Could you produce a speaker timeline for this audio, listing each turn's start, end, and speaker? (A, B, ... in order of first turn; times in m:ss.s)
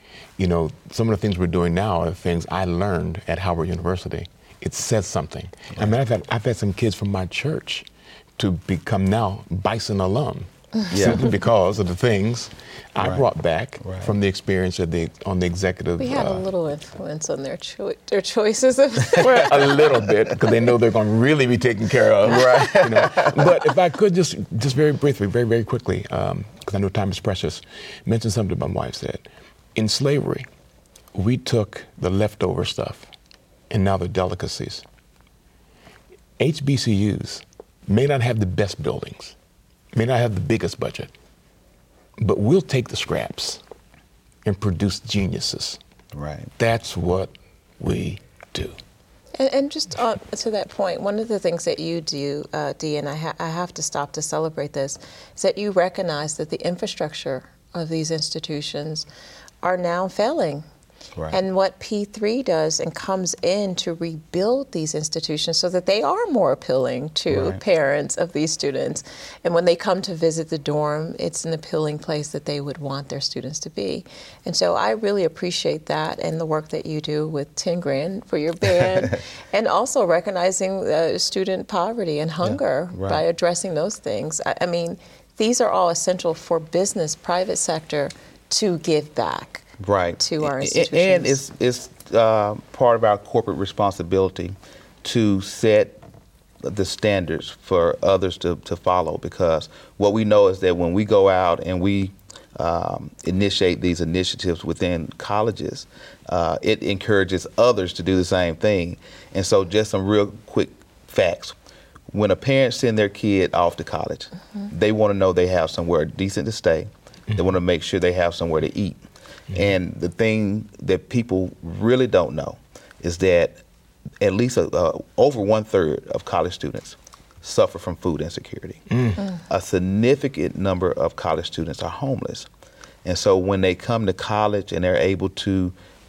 0:00.4-0:07.8 A
0:08.4-0:16.4 A
0:10.9-0:11.2 B
0:13.0-0:13.2 B
0:13.8-0:14.1 B
0:16.0-0:20.1 C
0:19.1-0:30.5 A
0:22.2-0:23.7 B
0:22.3-0:22.8 C
0:31.1-0:33.1 A
0:33.7-0:34.8 A
0:36.4-0:39.4 A
0:39.9-0:41.1 A
0:42.2-0:43.6 A
0:44.4-0:45.8 A
0:46.1-0:46.5 B
0:46.6-0:48.8 A
0:49.3-0:59.1 C
0:59.6-1:00.6 C
1:01.3-1:29.7 C
1:07.3-1:07.6 B
1:22.4-1:23.2 B
1:29.8-1:36.0 B
1:30.2-1:31.4 C
1:36.6-1:51.6 B
1:52.1-2:03.6 B
2:04.2-2:08.8 B
2:08.9-2:09.2 A
2:09.4-2:12.5 B
2:13.0-2:15.7 B